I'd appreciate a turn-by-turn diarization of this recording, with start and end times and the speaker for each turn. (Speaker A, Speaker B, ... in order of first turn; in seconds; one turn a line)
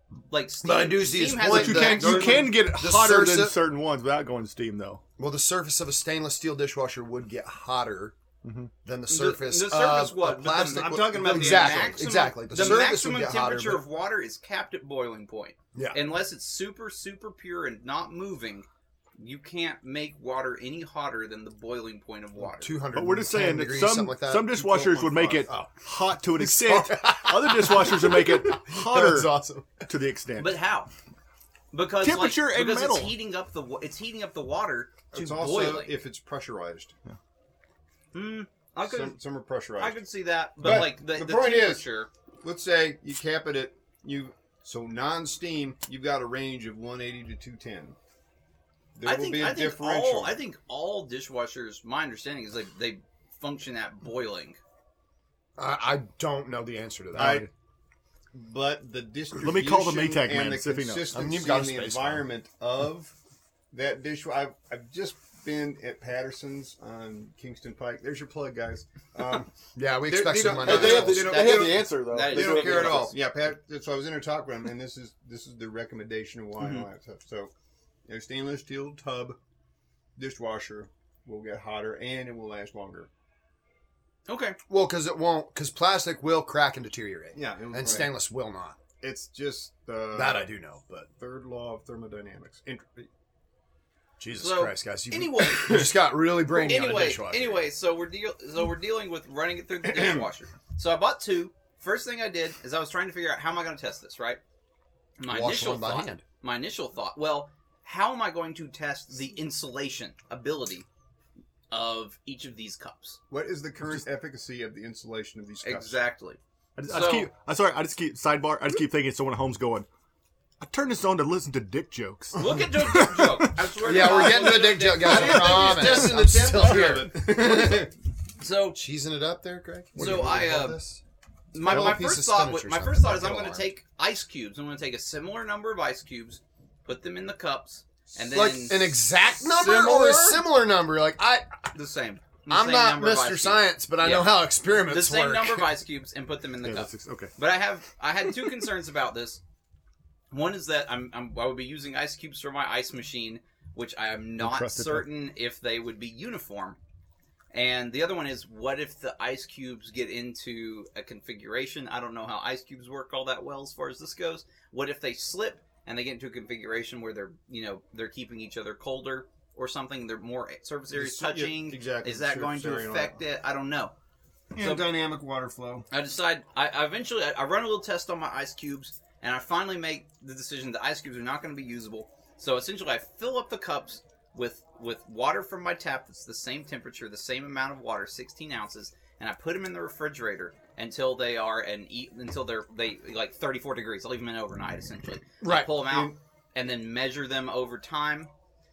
Speaker A: 0.3-2.5
Speaker B: 0.6-3.6
Speaker C: 1.4-5.0
Speaker B: 5.2-8.2
Speaker C: 8.4-8.7
Speaker B: 8.8-13.8
Speaker A: 9.1-22.8
Speaker D: 10.6-12.1
Speaker B: 15.7-16.0
Speaker B: 22.4-25.8
Speaker C: 22.9-29.3
Speaker B: 26.4-29.9
Speaker C: 29.9-30.6
Speaker A: 30.4-30.9
Speaker A: 31.7-36.0
Speaker C: 32.0-33.2
Speaker D: 35.1-36.9
Speaker A: 38.1-39.2
Speaker D: 38.8-40.0
Speaker A: 39.8-42.1
Speaker D: 40.6-41.9
Speaker D: 42.4-48.0
Speaker D: 49.0-50.4
Speaker A: 49.0-54.6
Speaker B: 55.6-57.5
Speaker C: 57.2-57.5
Speaker D: 57.2-57.5
Speaker D: 58.3-63.1
Speaker C: 59.4-61.1
Speaker B: 61.1-62.3
Speaker D: 63.7-69.5
Speaker B: 69.8-71.3
Speaker D: 70.1-77.5
Speaker C: 70.6-73.1
Speaker A: 70.6-73.2
Speaker A: 76.6-76.9
Speaker D: 78.1-79.4
Speaker D: 80.2-83.1
Speaker A: 84.3-84.6
Speaker B: 84.7-88.8
Speaker D: 87.3-88.1
Speaker D: 89.0-90.5
Speaker B: 90.1-91.1
Speaker D: 91.2-93.1
Speaker B: 94.2-97.6
Speaker A: 94.4-95.9
Speaker A: 96.5-104.4
Speaker D: 99.8-100.3
Speaker A: 105.2-110.9
Speaker B: 105.3-106.2
Speaker A: 111.7-113.2
Speaker D: 113.3-116.0
Speaker A: 115.6-117.3
Speaker C: 116.8-119.9
Speaker C: 120.6-123.6
Speaker A: 122.3-125.8
Speaker B: 123.8-127.9
Speaker D: 124.0-127.9
Speaker C: 125.5-126.1
Speaker A: 128.4-128.8
Speaker B: 128.7-131.0
Speaker A: 130.0-130.8
Speaker A: 131.5-138.9
Speaker B: 131.5-133.7
Speaker B: 138.3-141.7
Speaker D: 139.4-140.4
Speaker A: 141.7-149.4
Speaker B: 142.5-145.8
Speaker C: 146.6-147.3
Speaker A: 150.3-156.8
Speaker C: 154.4-155.1
Speaker A: 157.5-173.9
Speaker D: 170.9-173.2
Speaker D: 174.5-175.9
Speaker A: 174.6-174.9
Speaker A: 175.9-198.3
Speaker B: 195.4-195.7
Speaker D: 195.8-196.2